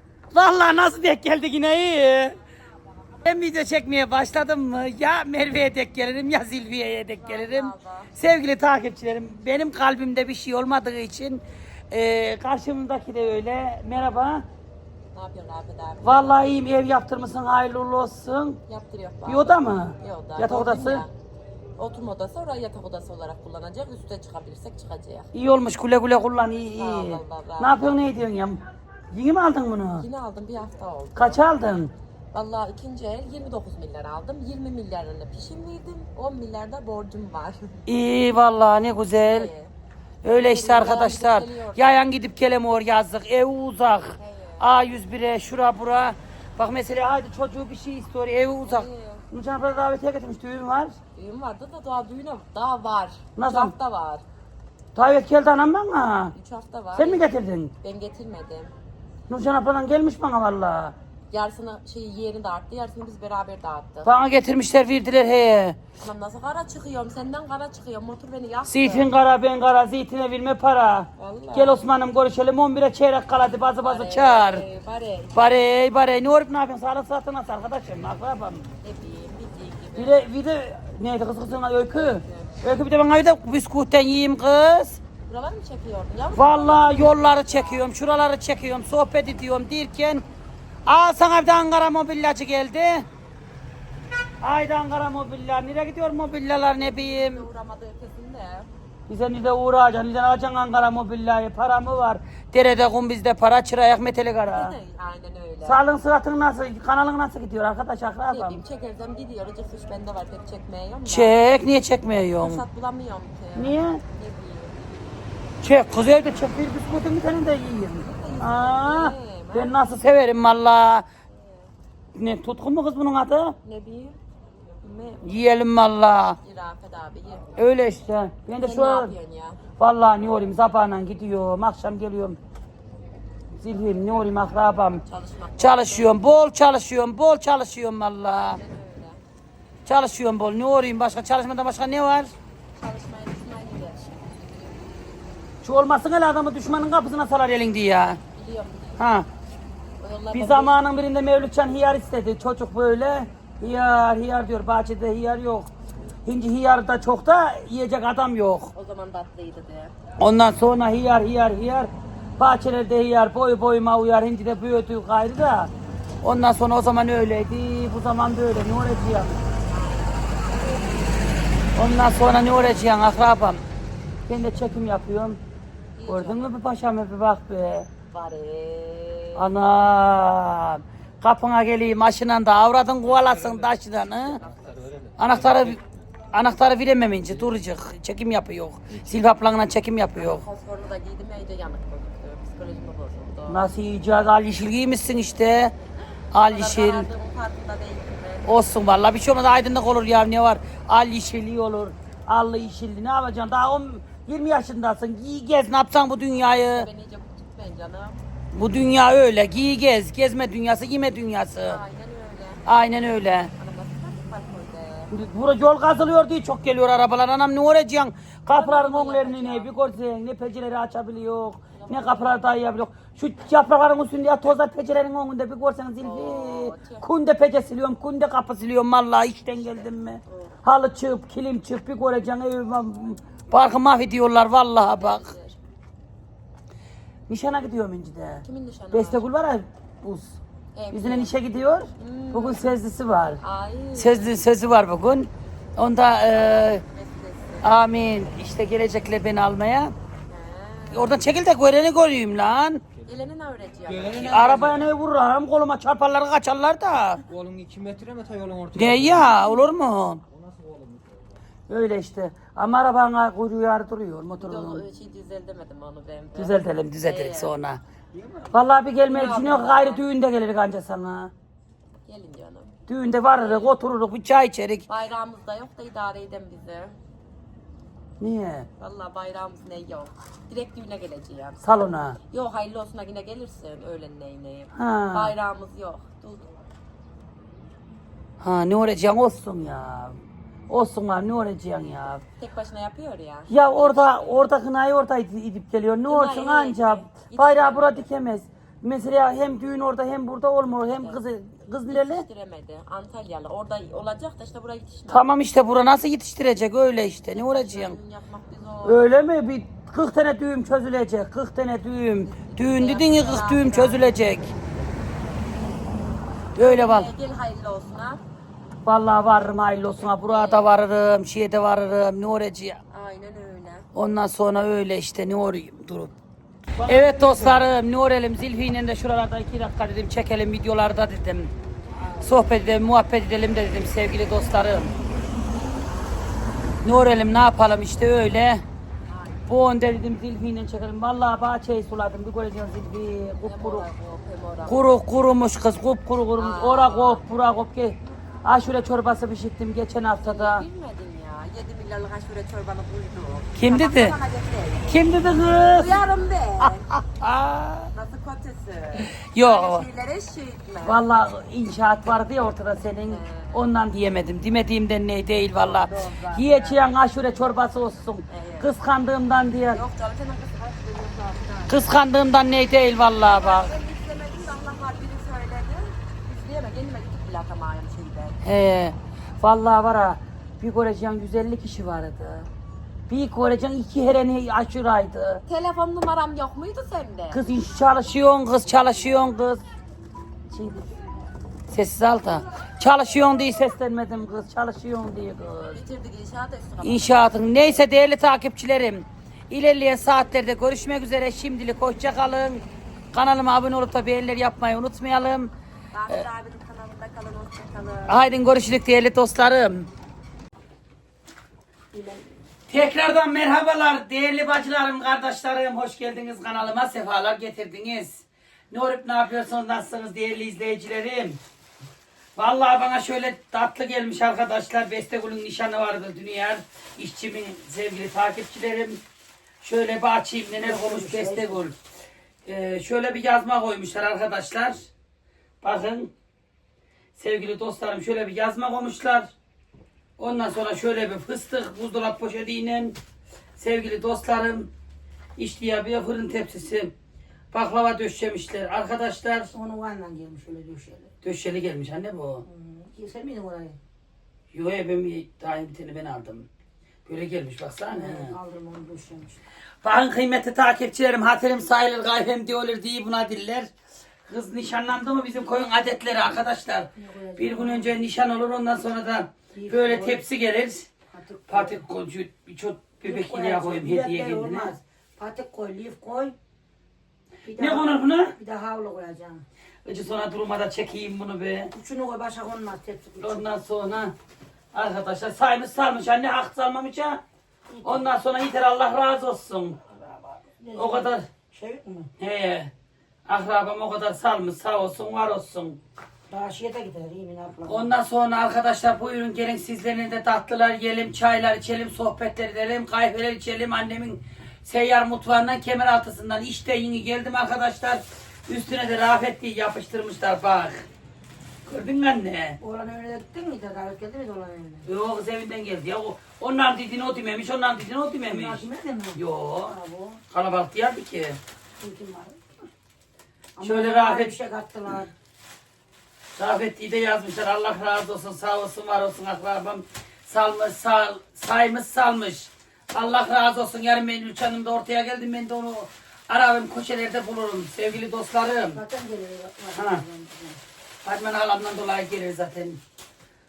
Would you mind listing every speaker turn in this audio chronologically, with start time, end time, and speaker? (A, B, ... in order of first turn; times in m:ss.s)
0:00.3-0:02.4 A
0:03.2-0:14.4 A
0:07.2-0:08.1 B
0:15.1-0:16.5 B
0:16.0-0:18.6 A
0:18.7-0:21.1 B
0:19.2-0:21.0 A
0:21.8-0:25.3 B
0:25.3-0:28.6 A
0:26.8-0:28.0 B
0:29.1-0:30.0 A
0:30.0-0:31.4 B
0:31.2-0:31.9 A
0:32.3-0:37.8 B
0:37.9-0:39.5 A
0:39.1-0:39.7 B
0:40.2-0:51.0 A
0:40.2-0:42.0 B
0:44.2-0:44.7 B
0:48.6-0:49.2 B
0:51.1-0:54.2 B
0:53.4-0:53.7 A
0:54.9-0:56.3 A
0:56.3-0:57.3 B
0:56.9-0:57.7 A
0:57.8-0:58.7 B
0:59.3-1:00.9 A
1:01.3-1:04.1 B
1:04.0-1:05.8 A
1:06.0-1:09.1 B
1:08.6-1:14.6 A
1:11.2-1:11.9 B
1:13.8-1:15.6 B
1:15.3-1:18.7 A
1:18.8-1:20.3 B
1:20.0-1:25.0 A
1:21.9-1:22.6 B
1:25.3-1:27.9 B
1:26.3-1:30.2 A
1:30.9-1:33.1 A
1:34.4-1:37.4 A
1:36.8-1:38.7 B
1:39.1-1:44.8 A
1:44.5-1:45.8 B
1:45.6-1:48.6 A
1:48.3-1:51.4 B
1:51.1-1:52.6 A
1:52.4-1:54.8 B
1:53.6-1:54.0 A
1:55.6-2:01.0 A
1:58.0-1:59.8 B
2:01.3-2:01.7 B
2:02.1-2:03.6 A
2:03.6-2:04.2 B
2:04.8-2:05.2 B
2:05.2-2:06.4 A
2:06.4-2:07.4 B
2:07.6-2:09.2 A
2:08.6-2:09.6 B
2:09.8-2:12.4 A
2:13.6-2:15.0 A
2:15.0-2:16.3 B
2:15.6-2:18.6 A
2:18.3-2:19.2 B
2:19.9-2:22.3 A
2:22.8-2:25.0 B
2:25.6-2:28.2 A
2:28.3-2:29.0 B
2:29.0-2:29.3 A
2:30.0-2:30.8 B
2:30.3-2:35.7 A
2:36.2-2:38.7 A
2:38.7-2:39.9 B
2:40.2-2:49.4 A
2:49.6-2:51.4 B
2:51.8-2:53.6 A
2:54.3-2:55.4 A
2:56.0-2:56.5 B
2:56.1-2:57.9 A
2:58.1-2:59.5 B
2:59.4-3:04.4 A
3:04.1-3:05.0 B
3:05.2-3:05.8 A
3:06.3-3:10.4 A
3:10.2-3:13.7 B
3:13.5-3:15.7 A
3:16.3-3:17.1 A
3:16.4-3:18.5 B
3:18.4-3:26.9 A
3:26.7-3:28.2 B
3:28.5-3:31.8 A
3:31.6-3:32.7 B
3:32.6-3:33.5 A
3:33.6-3:35.1 B
3:35.1-3:55.3 A
3:38.5-3:39.7 B
3:41.8-3:42.4 B
3:46.0-3:47.1 B
3:49.8-3:50.5 B
3:54.9-3:55.6 B
3:57.3-4:00.4 A
3:58.4-3:59.3 B
4:00.8-4:01.3 B
4:00.9-4:03.4 A
4:02.0-4:02.7 B
4:03.4-4:04.4 B
4:03.9-4:06.8 A
4:06.3-4:07.8 B
4:07.6-4:09.9 A
4:10.3-4:11.2 B
4:10.9-4:12.8 A
4:13.0-4:14.4 B
4:13.9-4:14.9 C
4:14.1-4:17.2 A
4:17.3-4:19.5 C
4:18.8-4:20.2 A
4:20.3-4:21.1 C
4:21.7-4:24.8 A
4:24.4-4:27.5 B
4:26.3-4:27.8 A
4:28.1-4:28.5 C
4:28.5-4:31.3 A
4:29.1-4:30.0 B
4:32.1-4:32.8 B
4:32.9-4:34.8 A
4:33.3-4:33.7 B
4:34.9-4:37.0 B
4:38.2-4:38.7 A
4:38.8-4:46.4 B
4:41.6-4:42.2 A
4:44.8-4:45.3 A
4:48.4-4:52.2 A
4:52.4-4:54.5 B
4:53.5-5:02.2 A
4:56.1-4:58.0 B
5:00.9-5:01.2 B
5:01.9-5:05.2 B
5:05.1-5:08.0 A
5:07.3-5:09.0 B
5:08.8-5:14.5 A
5:12.2-5:14.6 B
5:16.5-5:17.1 A
5:16.6-5:18.2 B
5:18.8-5:22.8 A
5:20.0-5:20.8 B
5:22.9-5:23.9 B
5:23.9-5:26.1 A
5:26.8-5:27.7 D
5:26.8-5:31.5 A
5:26.9-5:27.7 B
5:32.2-5:34.9 A
5:36.8-5:38.6 A
5:39.1-5:39.4 B
5:39.5-5:43.9 A
5:43.4-5:44.9 B
5:44.7-5:50.6 A
5:46.4-5:47.2 B
5:50.2-5:56.9 B
5:53.6-5:54.2 A
5:54.9-5:56.1 A
5:56.6-5:57.9 A
5:57.9-6:01.0 B
5:59.0-5:59.8 A
6:00.8-6:09.8 A
6:03.1-6:03.6 B
6:05.6-6:06.8 B
6:08.3-6:08.7 B
6:09.7-6:11.9 B
6:11.7-6:13.7 A
6:13.2-6:18.4 B
6:18.4-6:22.5 A
6:23.1-6:25.4 A
6:25.4-6:27.4 B
6:27.3-6:29.6 A
6:30.5-6:30.9 A
6:31.7-6:35.8 A
6:35.7-6:37.9 B
6:36.8-6:45.5 A
6:45.9-6:48.3 B
6:48.1-6:49.9 A
6:52.7-7:01.4 A
7:02.4-7:09.0 A
7:09.6-7:11.8 A
7:10.6-7:11.6 D
7:12.4-7:14.9 A
7:15.6-7:16.1 A
7:17.2-7:19.3 A
7:20.2-7:23.0 A
7:23.6-7:24.7 A
7:25.4-7:26.9 A
7:27.5-7:29.5 A
7:29.5-7:31.1 D
7:31.2-7:32.4 A
7:32.4-7:33.8 D
7:34.5-7:36.5 A
7:37.0-7:38.3 A
7:37.9-7:39.4 D
7:39.8-7:43.7 A
7:44.3-7:50.9 A
7:46.9-7:47.9 D
7:49.5-7:50.2 D
7:51.1-7:51.8 D
7:51.5-7:54.7 A
7:53.0-7:56.3 D
7:57.4-7:59.4 D
7:57.6-7:58.3 A
7:59.8-8:01.7 A
8:01.7-8:03.4 D
8:03.2-8:04.1 A
8:04.7-8:07.2 A
8:07.7-8:08.1 D
8:07.8-8:11.3 A
8:10.6-8:12.1 D
8:12.2-8:12.7 A
8:13.3-8:15.8 A
8:16.3-8:17.9 D
8:17.7-8:30.8 A
8:31.6-8:32.6 A
8:32.6-8:34.9 D
8:34.9-8:38.6 A
8:38.3-8:40.2 D
8:39.2-8:39.7 A
8:40.3-8:41.4 A
8:41.8-8:42.6 D
8:43.6-8:45.1 D
8:43.6-8:44.3 A
8:46.4-8:58.8 A
8:58.7-9:00.6 D
8:59.8-9:00.0 A
9:01.0-9:02.8 A